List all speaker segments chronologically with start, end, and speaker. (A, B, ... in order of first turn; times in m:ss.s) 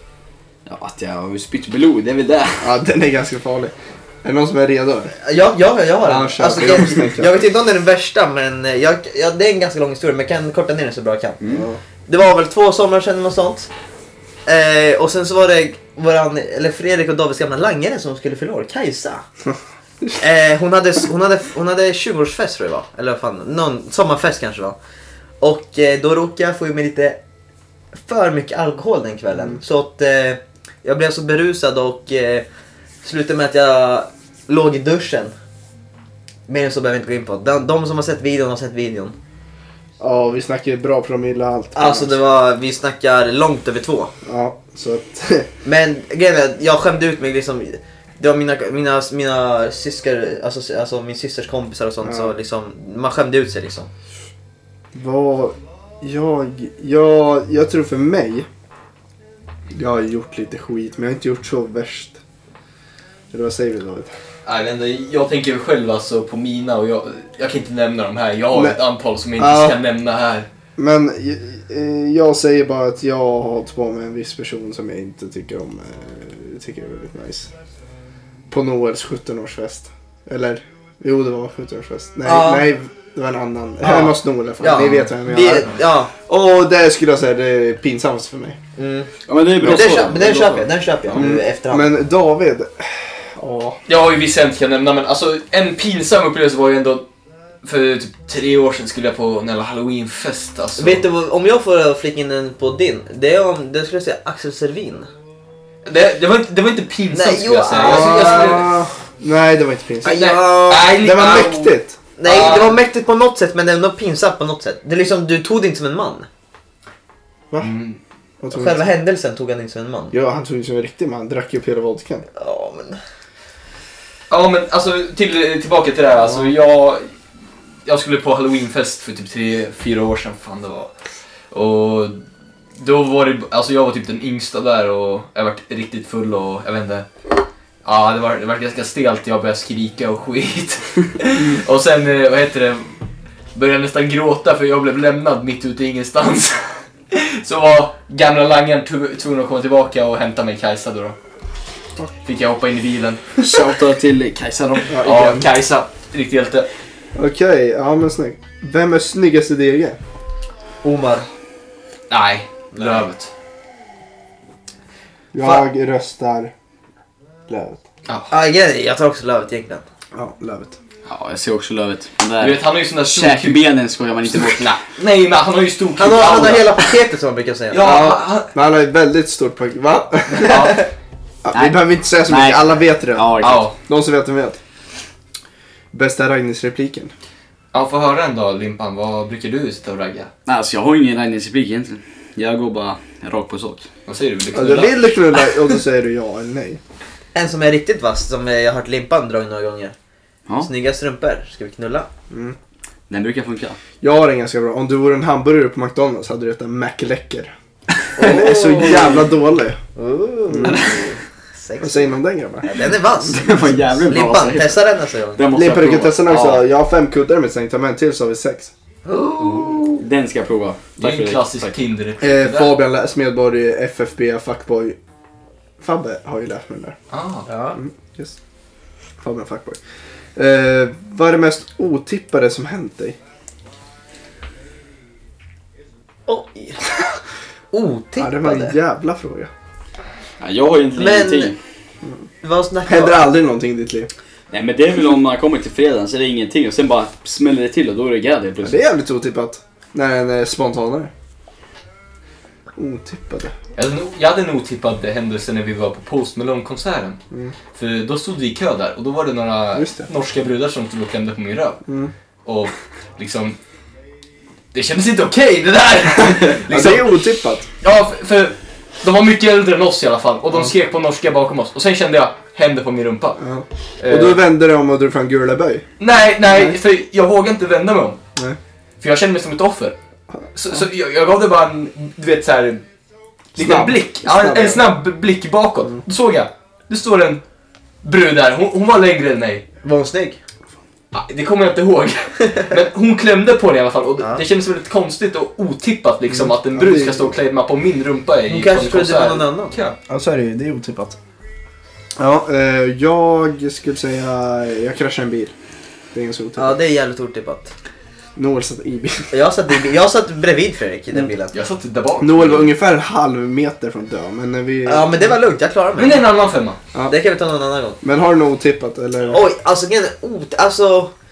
0:00.6-0:02.7 A
0:02.6-0:03.7 B
0:04.2-0:05.1 B
0:05.2-0:11.4 C
0:06.0-0:07.3 B
0:11.5-0:11.8 B
0:12.1-0:13.7 C
0:14.4-0:19.2 C
0:20.2-0:24.8 C
0:25.4-0:27.2 C
0:28.0-0:32.5 C
0:33.0-0:35.3 C
0:36.5-0:39.1 C
0:40.0-0:42.2 B
0:41.7-0:44.1 C
0:44.2-0:45.5 B
0:45.6-0:53.9 C
0:52.0-0:52.3 B
0:54.9-0:58.5 B
0:59.7-1:02.2 B
1:03.3-1:04.1 B
1:04.4-1:10.5 D
1:08.5-1:08.8 B
1:09.4-1:09.8 B
1:10.8-1:17.5 B
1:18.5-1:28.6 B
1:22.2-1:22.7 C
1:23.8-1:26.1 C
1:28.8-1:31.9 C
1:29.3-1:31.2 A
1:31.1-1:33.8 B
1:33.9-1:37.0 D
1:37.6-1:41.0 D
1:40.8-1:45.1 C
1:45.8-1:48.7 D
1:47.1-1:48.6 C
1:47.8-1:50.3 B
1:50.0-1:51.0 C
1:50.1-1:52.8 D
1:50.9-1:52.0 B
1:52.2-1:56.3 C
1:57.6-1:58.0 D
1:58.4-1:58.8 B
1:58.5-2:00.1 C
2:00.1-2:02.2 B
2:02.3-2:03.0 C
2:04.3-2:07.1 D
2:07.8-2:10.9 D
2:11.5-2:12.2 D
2:12.8-2:17.1 D
2:17.8-2:23.0 D
2:23.5-2:31.2 D
2:32.2-2:33.3 D
2:33.4-2:35.0 A
2:34.9-2:35.4 B
2:35.0-2:36.7 D
2:37.1-2:40.0 B
2:40.8-2:41.3 C
2:42.1-2:43.3 D
2:42.7-2:43.0 C
2:45.3-2:46.5 B
2:45.4-2:45.7 C
2:47.5-2:47.8 B
2:48.3-2:49.8 C
2:50.1-2:50.8 B
2:51.1-2:54.8 A
2:52.4-2:53.7 D
2:54.3-2:56.8 D
2:56.0-2:57.8 C
2:57.7-2:58.5 D
2:57.8-3:00.8 B
3:00.4-3:00.8 D
3:01.4-3:04.6 B
3:01.5-3:03.7 A
3:03.4-3:03.8 D
3:05.9-3:07.1 B
3:07.7-3:10.3 D
3:10.4-3:13.8 A
3:14.1-3:15.5 D
3:14.5-3:16.8 B
3:17.3-3:19.9 C
3:20.6-3:22.1 C
3:22.3-3:22.6 B
3:23.1-3:23.8 A
3:24.0-3:27.5 B
3:28.2-3:29.2 C
3:28.2-3:29.8 B
3:30.0-3:35.4 C
3:30.5-3:30.8 B
3:30.7-3:31.0 A
3:31.8-3:32.7 B
3:33.3-3:36.6 A
3:35.5-3:38.7 B
3:39.0-3:40.0 C
3:39.4-3:41.7 A
3:41.0-3:42.8 D
3:42.2-3:45.0 B
3:45.8-3:47.0 B
3:47.1-3:47.5 D
3:47.5-3:47.8 C
3:47.8-3:48.4 B
3:49.2-3:49.8 B
3:50.4-3:53.2 B
3:56.3-3:56.8 C
3:57.7-3:58.8 C
3:58.2-3:59.5 B
4:00.4-4:01.6 A
4:01.0-4:01.5 C
4:02.4-4:03.3 C
4:02.8-4:04.1 B
4:04.5-4:08.8 A
4:08.6-4:11.1 B
4:12.8-4:13.5 B
4:13.8-4:17.2 D
4:17.7-4:21.8 D
4:19.7-4:20.1 B
4:21.9-4:22.1 B
4:22.4-4:23.6 D
4:24.7-4:27.1 D
4:26.7-4:27.7 B
4:27.8-4:33.4 D
4:33.4-4:35.8 B
4:34.0-4:34.4 D
4:36.0-4:38.2 D
4:36.5-4:36.8 B
4:39.0-4:40.0 D
4:40.5-4:42.8 D
4:43.5-4:47.4 D
4:43.6-4:44.9 B
4:48.0-4:49.6 D
4:49.8-4:50.4 C
4:51.1-5:00.0 D
4:56.3-4:57.3 B
4:58.5-4:59.7 C
5:00.1-5:01.2 B
5:02.2-5:05.5 B
5:06.1-5:06.8 B
5:06.6-5:07.7 C
5:08.4-5:09.3 B
5:09.3-5:11.5 C
5:11.5-5:12.7 D
5:12.2-5:15.3 B
5:14.8-5:16.3 C
5:16.0-5:16.8 D
5:17.1-5:18.0 C
5:18.0-5:19.4 B
5:19.2-5:21.1 C